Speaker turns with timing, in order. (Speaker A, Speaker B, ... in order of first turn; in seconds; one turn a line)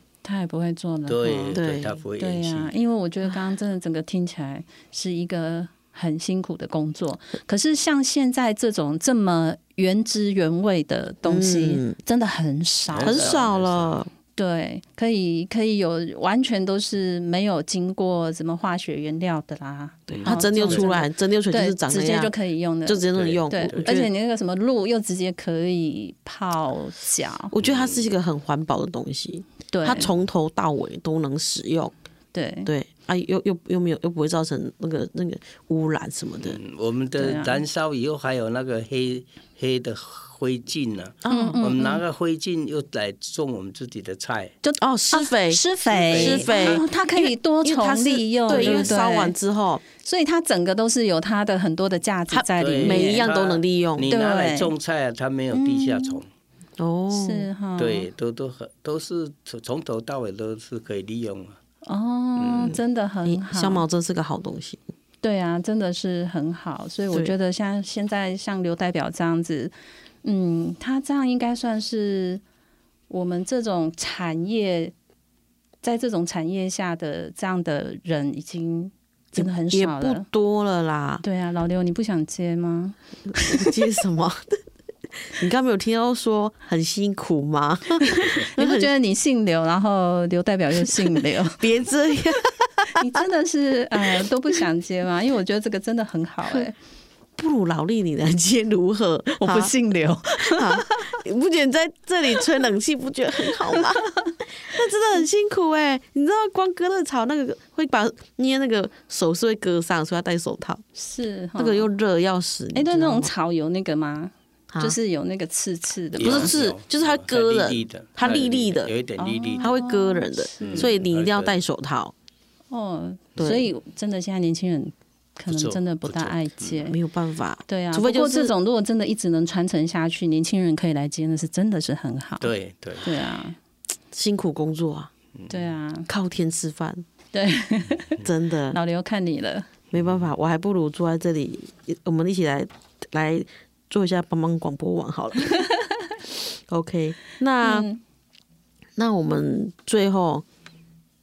Speaker A: 0.2-1.6
Speaker B: 1.1-2.7
Speaker C: 1.5-2.0
Speaker A: 2.2-13.4
Speaker C: 11.2-12.0
Speaker B: 12.9-14.0
Speaker C: 13.0-14.1
Speaker A: 14.4-27.5
Speaker B: 20.1-20.9
Speaker C: 20.2-22.3
Speaker C: 22.9-24.1
Speaker B: 23.1-23.9
Speaker C: 27.5-31.9
Speaker B: 27.6-28.1
Speaker A: 29.7-30.1
Speaker A: 32.3-32.7
Speaker C: 32.6-36.6
Speaker B: 36.4-44.5
Speaker A: 37.2-37.6
Speaker C: 41.2-41.6
Speaker A: 41.3-42.0
Speaker A: 44.6-49.4
Speaker C: 44.8-49.8
Speaker B: 45.9-46.9
Speaker B: 48.5-48.9
Speaker A: 50.0-53.3
Speaker C: 52.3-54.1
Speaker B: 52.6-56.3
Speaker A: 54.1-54.7
Speaker A: 55.5-56.2
Speaker C: 56.8-57.5
Speaker A: 57.1-58.1
Speaker B: 57.8-61.6
Speaker A: 61.9-63.9
Speaker B: 62.4-62.8
Speaker C: 62.6-64.8
Speaker A: 65.2-69.7
Speaker A: 70.2-72.4
Speaker A: 73.1-74.9
Speaker A: 75.8-80.3
Speaker C: 79.3-81.2
Speaker A: 81.2-83.7
Speaker C: 83.4-84.6
Speaker C: 85.3-88.9
Speaker A: 88.3-91.6
Speaker C: 90.8-93.1
Speaker A: 93.0-96.8
Speaker C: 96.5-96.7
Speaker C: 97.4-99.8
Speaker A: 99.4-101.2
Speaker C: 100.4-104.0
Speaker C: 104.6-110.8
Speaker A: 111.0-111.9
Speaker C: 111.6-113.3
Speaker A: 112.8-116.5
Speaker C: 114.7-115.0
Speaker B: 116.2-119.8
Speaker C: 116.2-118.9
Speaker A: 119.2-120.9
Speaker C: 119.6-122.1
Speaker B: 120.6-121.6
Speaker A: 122.7-127.0
Speaker C: 123.4-123.7
Speaker B: 125.5-126.8
Speaker C: 126.9-128.5
Speaker A: 127.7-132.5
Speaker B: 132.4-133.1
Speaker A: 133.0-133.6
Speaker C: 134.1-135.1
Speaker B: 135.4-135.7
Speaker A: 135.5-136.1
Speaker C: 136.1-137.1
Speaker A: 137.3-138.2
Speaker C: 138.2-138.8
Speaker A: 138.7-139.7
Speaker C: 139.9-145.6
Speaker B: 139.9-140.3
Speaker C: 146.7-147.9
Speaker A: 147.6-148.0
Speaker C: 149.0-150.4